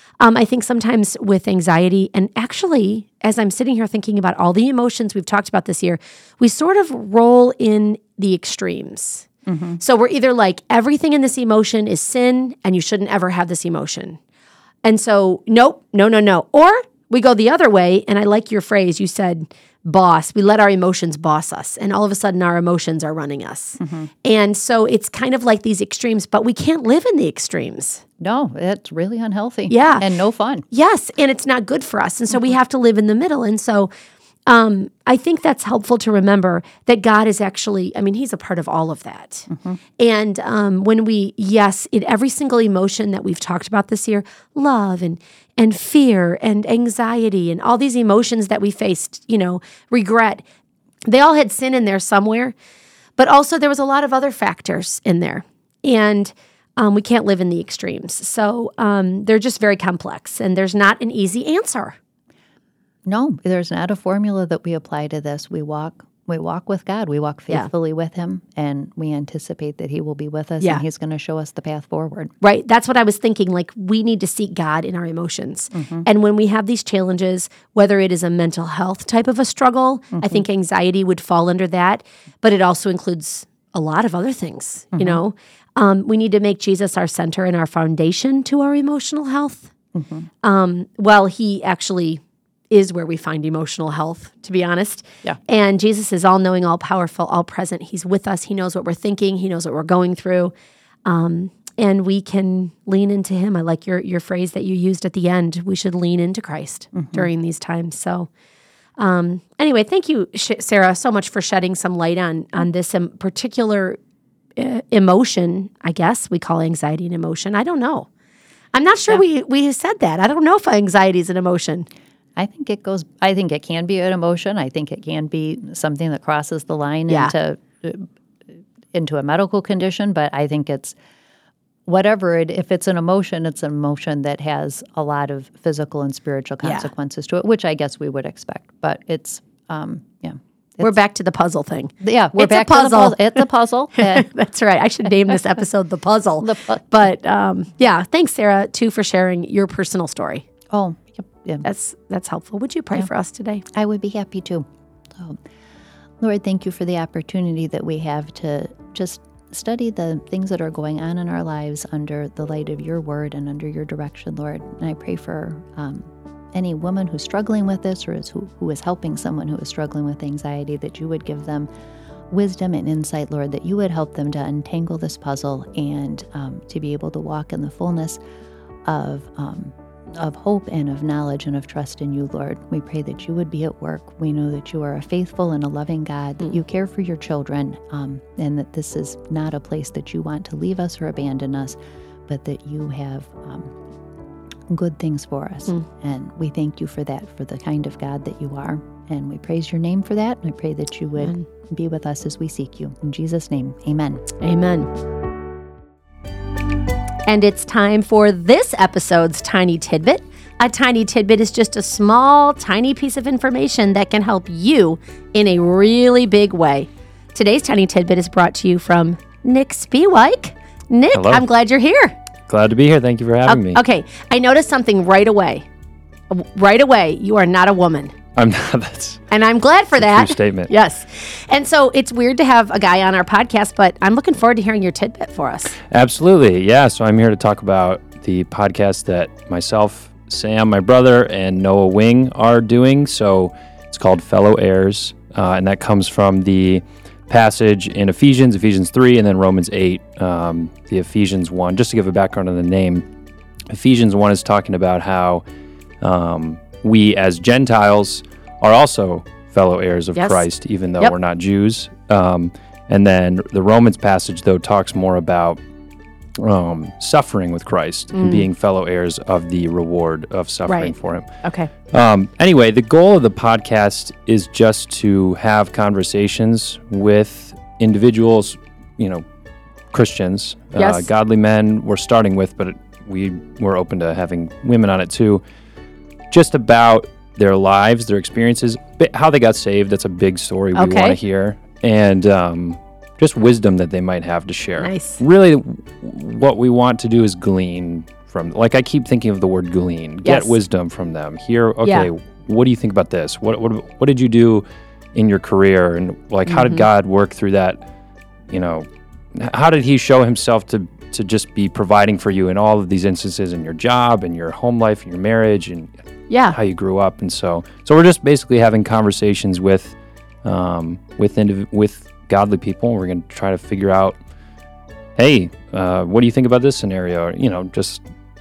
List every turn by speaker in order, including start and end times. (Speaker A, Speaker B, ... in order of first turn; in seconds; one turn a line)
Speaker A: 0.2-14.2
Speaker B: 9.5-9.8
Speaker A: 14.8-28.0
Speaker B: 23.8-24.1
Speaker B: 28.2-30.6
Speaker A: 29.7-30.1
Speaker A: 30.7-33.9
Speaker A: 34.5-50.4
Speaker B: 39.5-39.8
Speaker A: 51.0-52.5
Speaker A: 53.2-62.0
Speaker B: 63.0-72.3
Speaker A: 72.4-89.7
Speaker B: 75.7-76.1
Speaker B: 80.1-80.4
Speaker B: 84.9-85.2
Speaker B: 89.9-90.3
Speaker A: 90.4-100.5
Speaker A: 101.0-108.3
Speaker B: 106.9-107.3
Speaker A: 109.0-114.0
Speaker A: 114.6-118.1
Speaker A: 118.7-121.9
Speaker B: 122.4-128.1
Speaker A: 127.1-127.3
Speaker B: 128.9-131.0
Speaker B: 131.9-140.9
Speaker A: 140.8-143.4
Speaker B: 142.0-144.3
Speaker A: 143.9-150.4
Speaker B: 146.4-146.9
Speaker B: 150.7-151.7
Speaker A: 151.6-153.6
Speaker B: 153.7-155.4
Speaker B: 156.2-171.7
Speaker B: 172.3-178.2
Speaker B: 178.8-193.8
Speaker B: 194.7-204.2
Speaker A: 201.2-201.5
Speaker A: 204.4-204.9
Speaker A: 207.3-222.2
Speaker C: 221.1-221.5
Speaker C: 222.5-223.8
Speaker A: 223.5-225.7
Speaker A: 226.3-228.1
Speaker C: 228.4-229.3
Speaker A: 229.3-235.8
Speaker C: 230.0-230.7
Speaker C: 235.9-253.1
Speaker C: 253.7-255.4
Speaker C: 256.0-265.6
Speaker A: 260.1-260.4
Speaker C: 266.4-279.2
Speaker A: 268.1-268.5
Speaker A: 270.7-271.7
Speaker C: 279.9-285.4
Speaker A: 280.8-281.1
Speaker C: 286.3-307.8
Speaker A: 290.7-291.2
Speaker A: 294.8-295.2
Speaker A: 300.2-300.6
Speaker A: 301.8-302.1
Speaker A: 306.5-306.9
Speaker C: 308.5-315.9
Speaker A: 316.3-316.6
Speaker C: 316.5-324.2
Speaker C: 325.2-328.1